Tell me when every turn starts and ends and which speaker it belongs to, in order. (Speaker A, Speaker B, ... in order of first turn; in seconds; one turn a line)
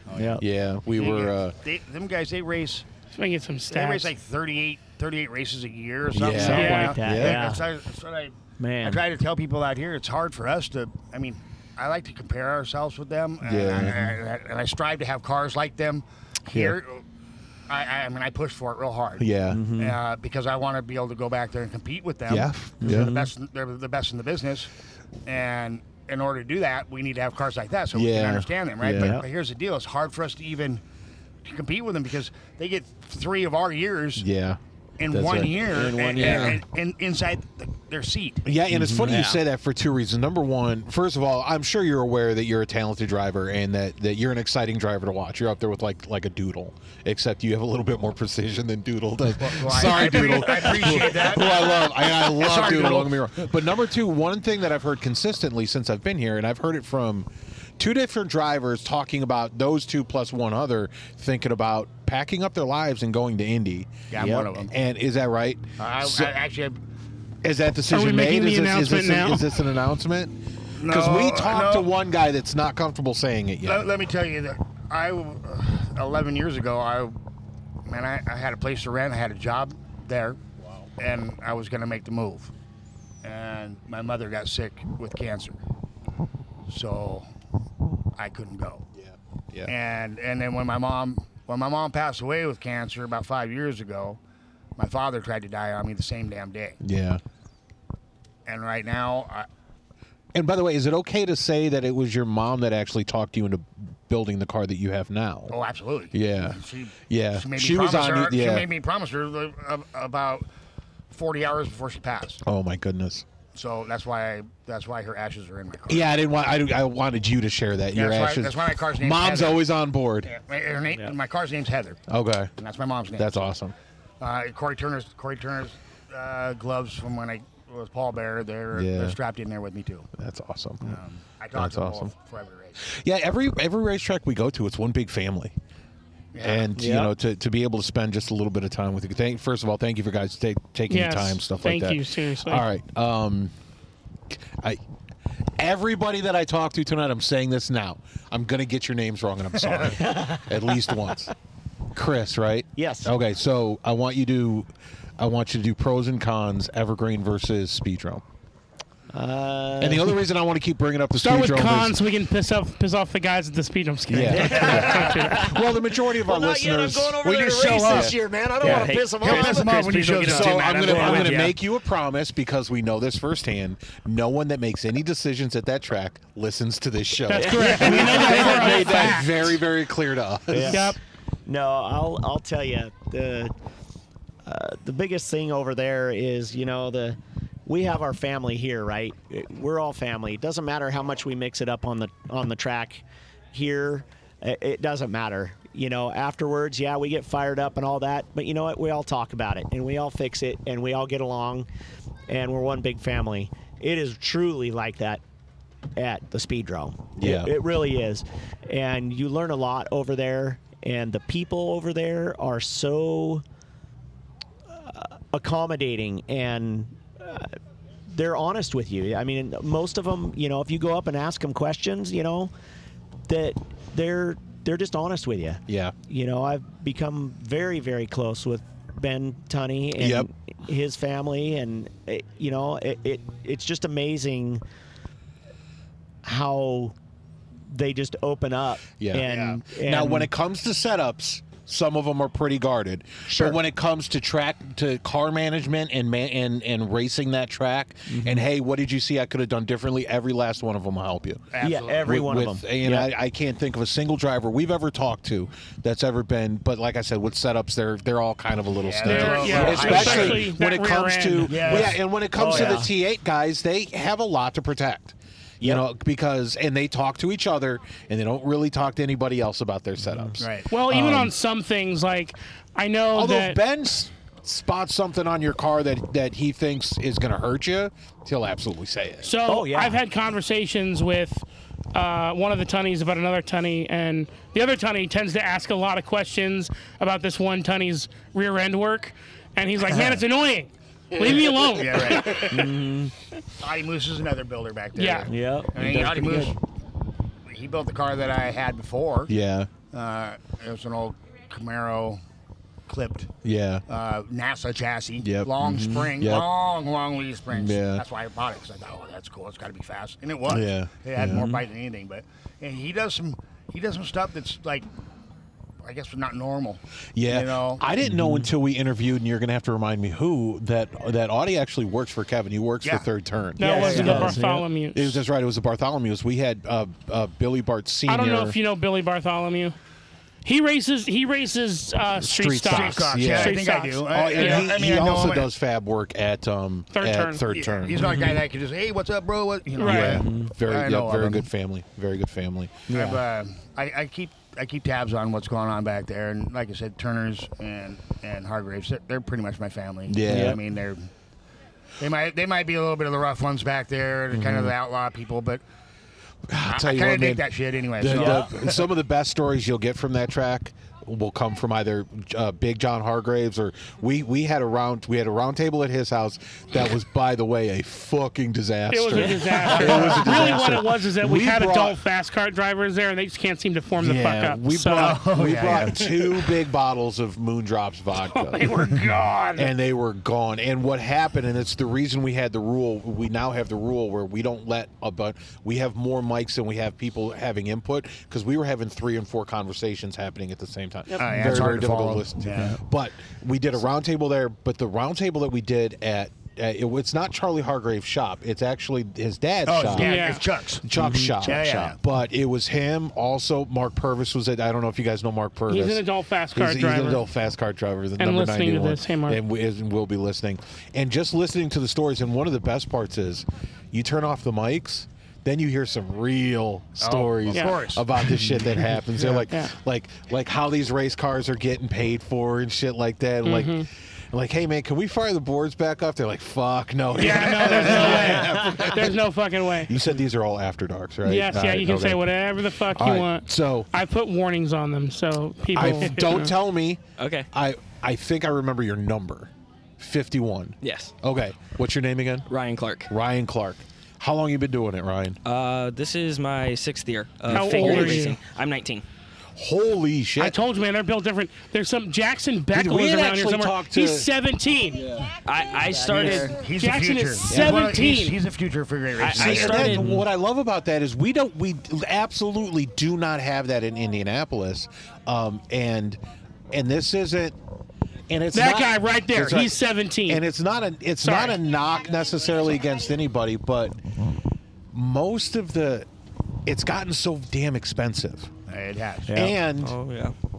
Speaker A: 0.1-0.4
Speaker B: 0.1-0.4
Speaker C: 0.4-1.6
Speaker A: 0.9-2.9
Speaker D: 3.1-4.1
Speaker A: 3.7-17.0
Speaker C: 6.1-7.5
Speaker B: 6.2-7.7
Speaker D: 6.5-7.0
Speaker B: 8.6-9.0
Speaker C: 13.4-14.2
Speaker A: 17.7-24.7
Speaker C: 19.2-19.6
Speaker B: 19.5-20.0
Speaker C: 22.3-23.1
Speaker B: 22.8-23.3
Speaker A: 25.2-30.8
Speaker C: 27.9-29.2
Speaker B: 28.9-29.2
Speaker A: 31.4-34.3
Speaker C: 34.2-36.6
Speaker A: 35.0-38.5
Speaker B: 35.7-36.6
Speaker E: 36.2-36.6
Speaker C: 38.5-66.3
Speaker B: 38.7-39.4
Speaker A: 49.4-53.2
Speaker A: 64.1-64.7
Speaker B: 64.2-64.5
Speaker A: 65.8-66.8
Speaker C: 67.4-73.9
Speaker D: 67.9-69.4
Speaker A: 70.8-71.9
Speaker A: 73.6-77.2
Speaker A: 77.9-80.4
Speaker A: 81.0-82.5
Speaker A: 83.2-85.6
Speaker A: 86.7-87.3
Speaker A: 88.2-88.8
Speaker C: 88.9-89.7
Speaker A: 89.7-94.2
Speaker A: 94.8-96.8
Speaker C: 96.8-97.2
Speaker A: 98.5-99.5
Speaker C: 100.3-105.6
Speaker A: 105.5-110.5
Speaker C: 106.1-108.7
Speaker A: 111.1-112.4
Speaker C: 112.4-113.3
Speaker A: 113.5-116.1
Speaker C: 115.9-120.3
Speaker A: 117.9-119.6
Speaker A: 120.2-122.0
Speaker C: 122.1-122.5
Speaker A: 122.6-123.4
Speaker C: 123.2-123.8
Speaker A: 124.2-130.1
Speaker C: 128.7-129.2
Speaker C: 130.2-131.0
Speaker A: 130.8-132.8
Speaker C: 131.5-132.1
Speaker C: 132.8-135.6
Speaker A: 136.3-136.7
Speaker C: 136.4-143.5
Speaker B: 136.8-137.1
Speaker D: 140.9-142.7
Speaker C: 144.3-144.8
Speaker C: 145.6-151.3
Speaker A: 149.6-150.1
Speaker B: 150.0-150.5
Speaker C: 151.9-158.2
Speaker B: 152.8-153.1
Speaker B: 159.1-160.1
Speaker C: 159.8-162.0
Speaker D: 161.2-165.5
Speaker C: 164.1-168.2
Speaker B: 164.3-165.6
Speaker A: 164.6-165.1
Speaker B: 166.1-170.3
Speaker A: 167.8-168.1
Speaker E: 168.6-171.4
Speaker A: 168.6-171.6
Speaker C: 170.2-180.9
Speaker B: 170.9-171.2
Speaker D: 177.3-179.4
Speaker B: 177.3-178.9
Speaker B: 180.5-180.9
Speaker D: 180.7-181.0
Speaker B: 181.5-183.5
Speaker B: 184.4-201.7
Speaker B: 202.3-205.2
Speaker B: 206.0-213.4
Speaker C: 207.2-207.5
Speaker B: 214.7-217.6
Speaker B: 218.1-222.5
Speaker B: 223.3-234.6
Speaker C: 225.7-225.9
Speaker C: 230.0-230.3
Speaker B: 236.2-236.9
Speaker B: 237.7-240.3
Speaker C: 239.0-271.3
Speaker A: 239.2-239.6
Speaker B: 243.3-243.6
Speaker B: 248.1-248.4
Speaker A: 251.5-252.3
Speaker B: 251.6-253.1
Speaker A: 258.8-260.5
Speaker D: 259.0-261.9
Speaker B: 259.5-260.2
Speaker A: 261.5-262.8
Speaker B: 262.3-262.9
Speaker A: 270.4-270.7
Speaker D: 270.7-273.6
Speaker C: 273.1-279.3
Speaker D: 279.2-292.8
Speaker B: 279.4-280.0
Speaker A: 291.2-292.6
Speaker B: 292.5-293.1
Speaker A: 293.6-296.6
Speaker D: 295.0-295.3
Speaker B: 295.3-296.5
Speaker A: 297.5-299.3
Speaker C: 299.3-299.7
Speaker A: 299.9-302.2
Speaker A: 302.9-303.3
Speaker C: 303.4-303.8
Speaker A: 303.9-314.9
Speaker C: 305.2-306.5
Speaker B: 305.7-306.0
Speaker C: 307.5-308.0
Speaker C: 310.5-311.6
Speaker A: 315.8-317.8
Speaker C: 317.2-324.4
Speaker B: 318.0-318.5
Speaker D: 323.6-325.2
Speaker B: 323.6-324.6
Speaker C: 324.9-328.6
Speaker D: 328.1-329.8
Speaker D: 330.4-334.7
Speaker C: 332.2-338.1
Speaker A: 332.7-335.5
Speaker D: 336.9-337.4
Speaker A: 337.5-341.5
Speaker B: 338.0-338.4
Speaker D: 339.8-340.2
Speaker C: 339.8-342.9
Speaker B: 340.0-340.6
Speaker B: 342.9-343.2
Speaker A: 342.9-351.1
Speaker C: 350.1-350.6
Speaker B: 350.3-350.6
Speaker A: 352.0-355.6
Speaker C: 354.3-354.7
Speaker C: 356.5-357.4
Speaker A: 356.6-358.8
Speaker C: 358.0-372.0
Speaker B: 358.1-358.5
Speaker D: 368.9-375.2
Speaker A: 369.8-370.4
Speaker C: 374.0-379.0
Speaker A: 375.0-376.5
Speaker D: 378.3-379.7
Speaker C: 379.6-400.3
Speaker A: 391.2-392.8
Speaker A: 399.7-400.9
Speaker D: 399.9-400.4
Speaker C: 400.8-429.2
Speaker B: 400.9-401.6
Speaker A: 401.4-402.0
Speaker D: 405.7-407.2
Speaker D: 408.2-409.4
Speaker A: 417.0-418.3
Speaker D: 417.5-417.8
Speaker D: 419.5-419.8
Speaker D: 423.4-423.9
Speaker D: 427.1-429.9
Speaker A: 427.7-428.2
Speaker B: 428.3-428.6
Speaker C: 429.8-432.3
Speaker D: 431.2-436.5
Speaker C: 432.9-433.9
Speaker C: 435.7-442.5
Speaker E: 437.2-437.5
Speaker E: 440.8-441.1
Speaker E: 442.5-443.1
Speaker C: 443.1-445.4
Speaker E: 445.4-449.0
Speaker C: 447.5-448.3
Speaker D: 447.5-448.4
Speaker C: 449.6-450.6
Speaker D: 450.4-455.1
Speaker C: 452.7-454.3
Speaker C: 455.0-455.3
Speaker E: 455.4-456.6
Speaker B: 455.9-456.5
Speaker A: 456.1-460.0
Speaker D: 456.7-458.4
Speaker C: 457.5-457.8
Speaker E: 459.2-460.1
Speaker C: 459.3-466.2
Speaker B: 459.8-460.2
Speaker C: 466.7-467.6
Speaker C: 468.3-474.0
Speaker D: 468.5-470.4
Speaker D: 471.2-471.6
Speaker C: 474.9-476.1
Speaker C: 476.7-478.5
Speaker A: 478.7-479.4
Speaker B: 479.3-479.6
Speaker C: 479.3-479.9
Speaker E: 479.8-480.3